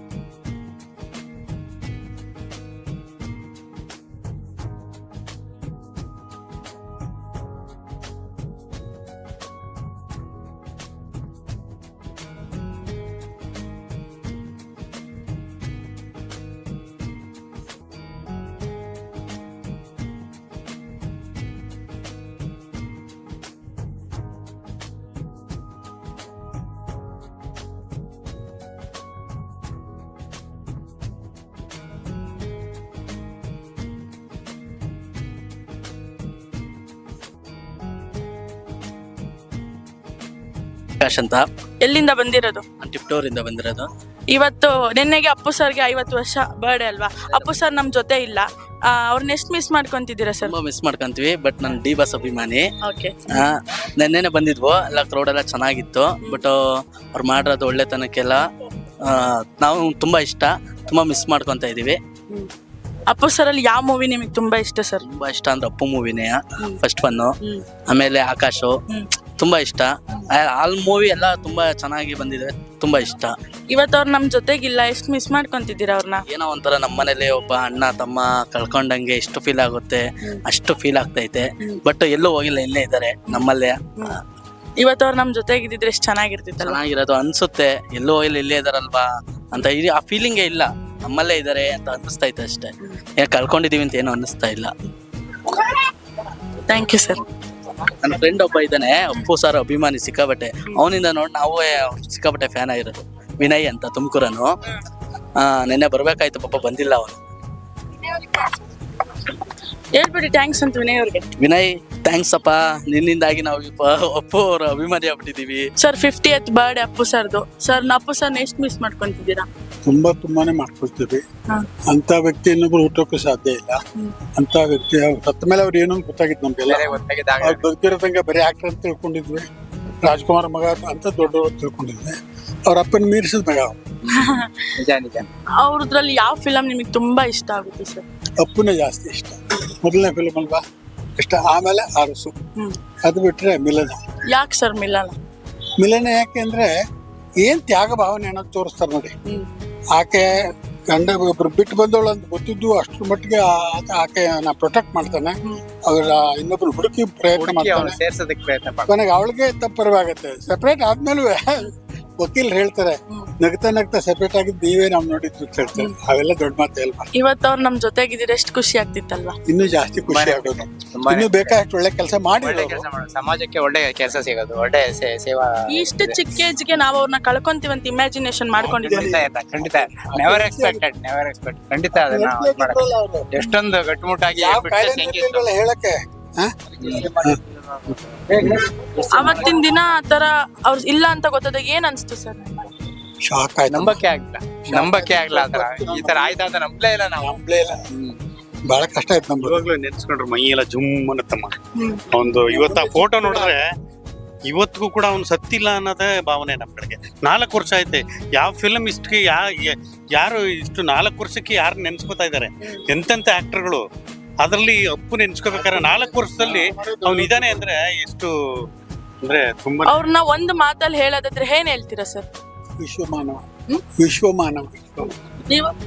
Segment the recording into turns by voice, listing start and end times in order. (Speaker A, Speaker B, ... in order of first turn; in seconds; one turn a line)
Speaker A: 41.0-41.4
Speaker B: 41.8-42.6
Speaker A: 42.8-43.9
Speaker B: 44.3-50.5
Speaker A: 50.5-52.7
Speaker B: 52.8-53.5
Speaker A: 53.3-56.5
Speaker A: 57.1-58.4
Speaker A: 59.1-62.0
Speaker B: 63.1-65.0
Speaker A: 65.0-67.3
Speaker A: 67.9-68.7
Speaker A: 69.4-73.3
Speaker B: 73.7-76.2
Speaker A: 76.3-84.1
Speaker B: 84.8-86.8
Speaker A: 86.6-94.7
Speaker B: 96.7-97.2
Speaker A: 98.0-104.5
Speaker A: 105.4-107.2
Speaker B: 108.1-108.5
Speaker B: 110.0-111.2
Speaker A: 111.4-115.7
Speaker B: 115.8-119.5
Speaker C: 119.9-121.2
Speaker C: 121.9-123.8
Speaker C: 124.4-129.5
Speaker D: 126.7-127.6
Speaker C: 130.0-132.2
Speaker C: 132.7-133.8
Speaker B: 134.2-134.4
Speaker D: 134.2-135.2
Speaker B: 135.6-138.0
Speaker C: 138.4-140.6
Speaker C: 141.2-142.3
Speaker C: 143.0-144.0
Speaker B: 144.3-145.2
Speaker C: 145.8-146.7
Speaker C: 147.4-149.1
Speaker C: 149.9-158.0
Speaker D: 157.3-158.9
Speaker C: 158.9-167.1
Speaker B: 167.2-169.3
Speaker C: 169.5-172.9
Speaker D: 170.1-171.6
Speaker D: 172.4-176.2
Speaker B: 175.7-179.1
Speaker D: 178.6-185.5
Speaker C: 178.6-180.9
Speaker C: 181.9-183.4
Speaker C: 184.3-187.4
Speaker D: 186.8-187.1
Speaker B: 189.1-192.7
Speaker D: 189.2-189.5
Speaker C: 193.3-194.1
Speaker D: 193.7-197.3
Speaker C: 194.6-196.5
Speaker C: 197.1-197.7
Speaker C: 198.7-199.7
Speaker E: 199.4-201.5
Speaker E: 202.1-203.6
Speaker C: 202.5-203.5
Speaker E: 204.5-213.8
Speaker E: 214.4-218.3
Speaker C: 215.5-217.7
Speaker E: 219.2-219.9
Speaker B: 219.8-222.2
Speaker C: 222.8-223.4
Speaker C: 224.0-224.8